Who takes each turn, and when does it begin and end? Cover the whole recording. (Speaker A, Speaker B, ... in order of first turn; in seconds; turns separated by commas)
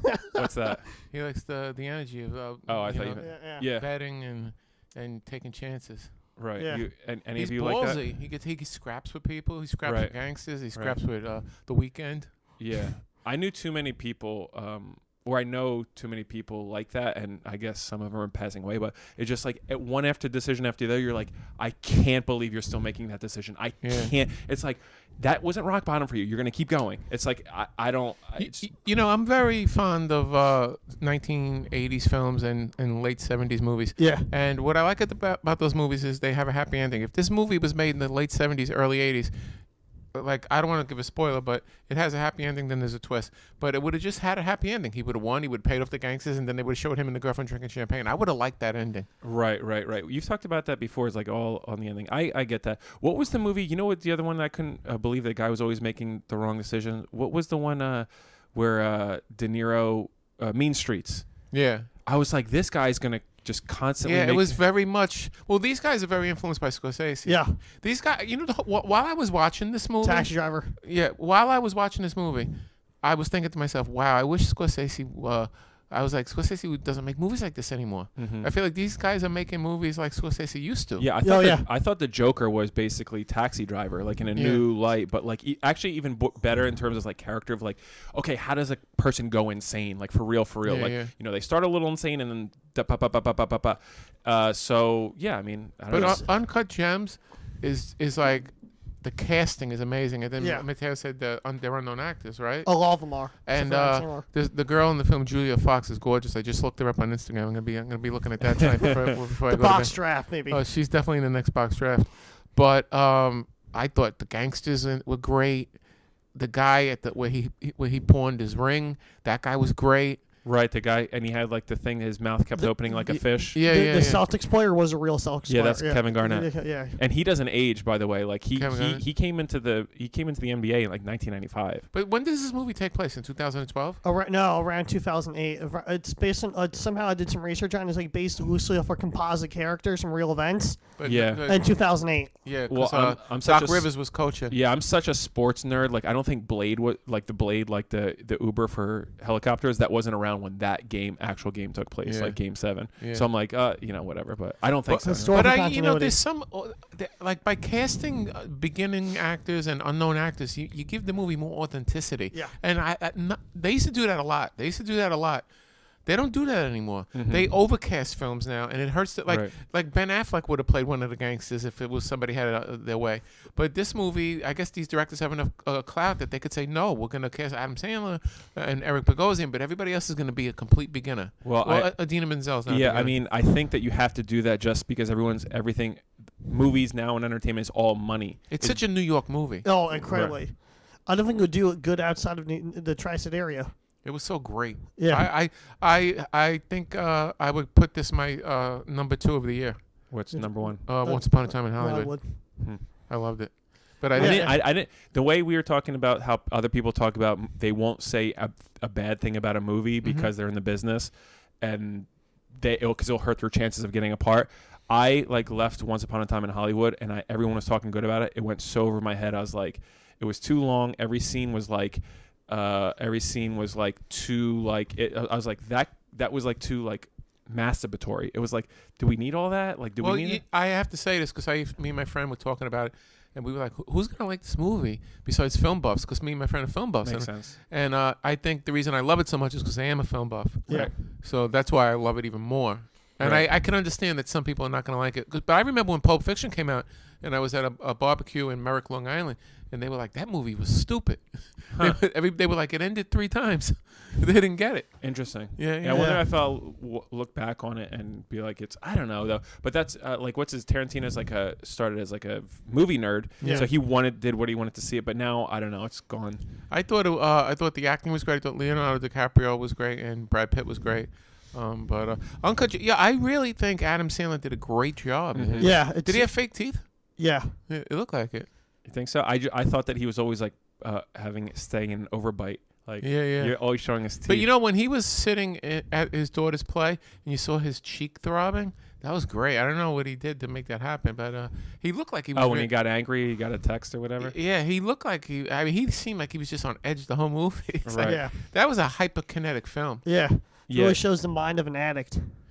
Speaker A: 0.3-0.9, Speaker B: 1.0-6.4, Speaker A: 2.7-3.9, Speaker C: 3.2-3.6, Speaker A: 6.3-8.1, Speaker C: 6.5-6.9, Speaker B: 7.3-12.6, Speaker A: 9.8-11.0, Speaker A: 12.6-28.7, Speaker B: 23.8-24.1, Speaker B: 28.4-49.1, Speaker C: 34.0-34.3, Speaker A: 49.2-64.6, Speaker B: 61.5-61.9, Speaker B: 64.0-81.1, Speaker C: 67.2-67.6, Speaker C: 70.0-70.8, Speaker A: 78.2-78.5, Speaker A: 81.0-96.3, Speaker C: 81.2-81.7, Speaker B: 84.3-84.7, Speaker B: 90.6-91.1, Speaker B: 95.9-120.3, Speaker C: 95.9-96.2, Speaker C: 100.4-100.7, Speaker C: 102.6-104.2, Speaker C: 109.5-110.6, Speaker A: 120.4-123.6, Speaker C: 122.5-127.0, Speaker B: 122.9-124.2, Speaker A: 125.5-131.9, Speaker B: 128.5-129.0, Speaker B: 131.9-134.0, Speaker C: 134.0-142.3, Speaker B: 141.0-144.6, Speaker A: 141.0-141.7, Speaker A: 142.7-155.5, Speaker B: 152.0-153.3, Speaker B: 154.9-183.2, Speaker C: 155.0-156.2, Speaker A: 167.1-167.5, Speaker A: 169.3-169.5, Speaker A: 181.4-189.2, Speaker B: 188.5-190.3, Speaker C: 189.6-193.7, Speaker B: 194.0-204.7, Speaker C: 195.0-195.3, Speaker A: 200.1-201.2, Speaker C: 200.3-202.3, Speaker A: 202.6-203.1, Speaker A: 204.1-230.4, Speaker C: 204.2-204.5, Speaker B: 210.0-210.3, Speaker B: 230.0-256.2, Speaker A: 237.0-237.6, Speaker A: 240.7-241.0, Speaker A: 243.2-243.5, Speaker A: 251.7-252.0, Speaker A: 255.0-266.4, Speaker C: 255.9-256.2, Speaker C: 263.4-263.7, Speaker B: 263.4-263.8, Speaker B: 266.7-278.5, Speaker A: 275.3-275.9, Speaker C: 275.6-277.6, Speaker A: 278.8-284.5, Speaker B: 283.0-292.7, Speaker A: 292.3-294.3, Speaker B: 294.2-300.0, Speaker A: 297.8-298.3, Speaker C: 298.0-298.3, Speaker C: 300.0-302.4, Speaker A: 300.7-301.0